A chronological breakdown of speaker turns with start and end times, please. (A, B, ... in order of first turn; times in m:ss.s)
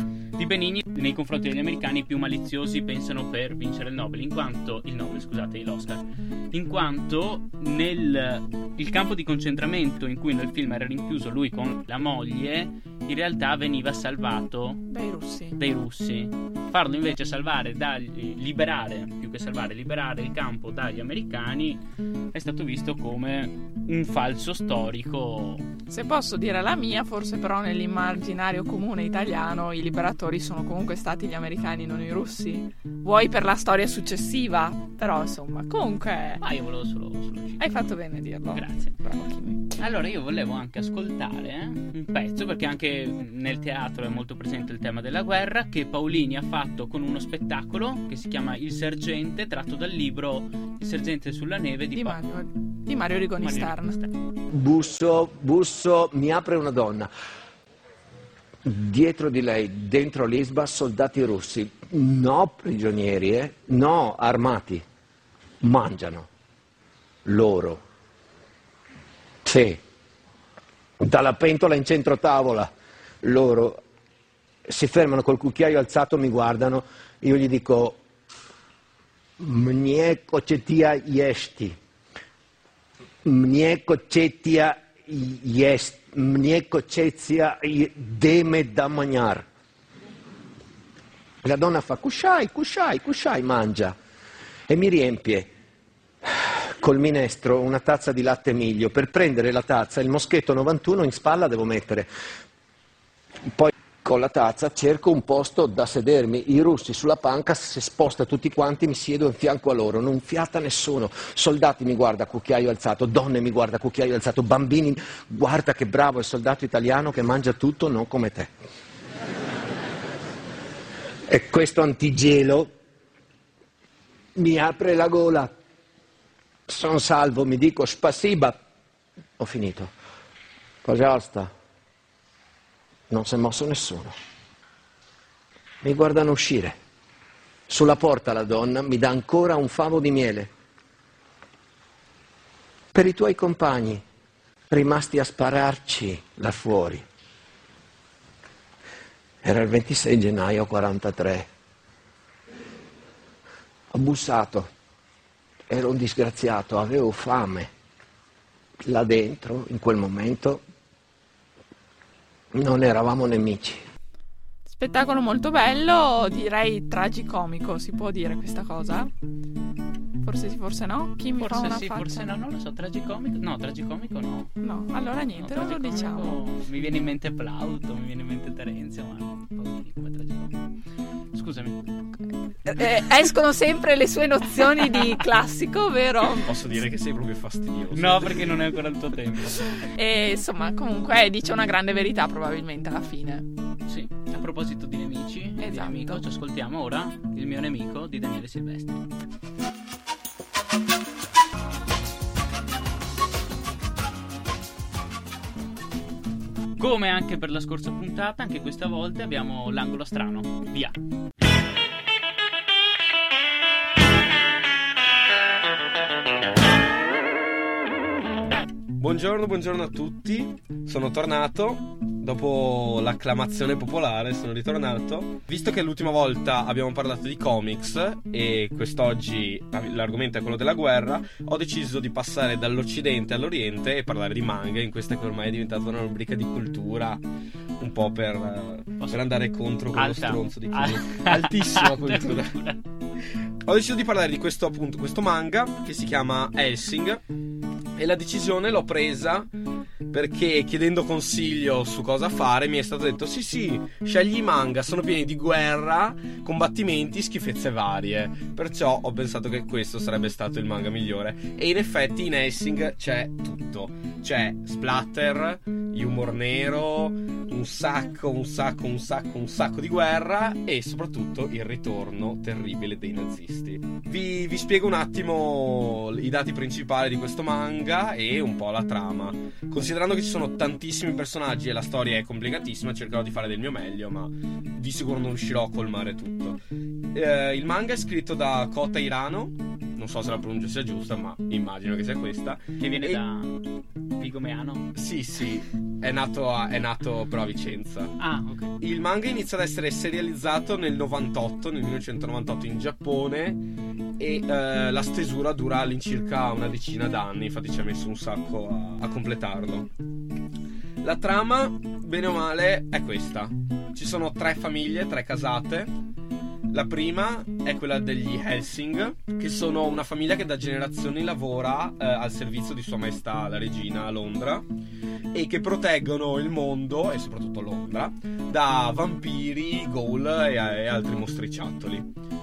0:00.4-0:14.9 A
0:14.9-0:15.6 B
0:15.6-0:21.8 A
0:22.3-0:25.6 A
0:25.9-0:36.4 B
0:36.4-0:37.9 A
0:37.6-0:39.8 B
0:38.5-0:39.0 A
0:39.8-0:52.2 A
0:51.9-0:54.0 B
0:53.4-0:54.1 A
0:54.5-0:57.1 C
0:58.6-1:04.8 C
1:05.6-1:06.3 C
1:07.2-1:07.8 C
1:09.4-1:09.8 C
1:11.0-1:12.7 C
1:13.2-1:13.8 C
1:14.7-1:18.0 C
1:19.4-1:21.8 C
1:23.2-1:29.4 C
1:31.4-1:33.9 C
1:34.7-1:35.5 C
1:36.7-1:42.1 C
1:43.4-1:58.5 C
2:01.3-2:02.7 C
2:04.4-2:05.5 C
2:06.7-2:08.6 C
2:09.4-2:09.9 C
2:10.8-2:11.5 C
2:13.1-2:14.1 C
2:15.8-2:16.8 C
2:17.7-2:20.5 C
2:22.9-2:24.0 C
2:24.7-2:27.0 C
2:29.4-2:31.5 C
2:33.9-2:34.7 C
2:35.7-2:37.7 C
2:38.8-2:40.6 C
2:42.5-2:43.8 C
2:44.6-2:49.1 B
2:50.2-2:52.3 B
2:51.4-2:54.5 A
2:54.6-2:56.4 B
2:55.4-3:00.5 A
3:01.3-3:01.8 A
3:02.6-3:06.5 B
3:06.4-3:08.5 D
3:07.9-3:09.8 A
3:09.8-3:13.4 B
3:13.9-3:19.0 A
3:15.6-3:16.2 B
3:26.8-3:30.9 A
3:39.0-3:57.2 D
3:57.8-4:02.6 D
3:59.0-3:59.3 A
3:59.9-4:02.8 A
4:03.6-4:07.2 D
4:08.0-4:09.5 D
4:10.1-4:46.6 D
4:47.1-4:53.2 D
4:52.8-4:53.6 A
4:54.1-4:54.9 A
4:54.9-4:58.1 D
4:58.2-4:58.7 A
4:58.8-5:09.9 D
5:11.0-5:15.9 D
5:16.7-5:24.6 D
5:25.3-5:32.1 D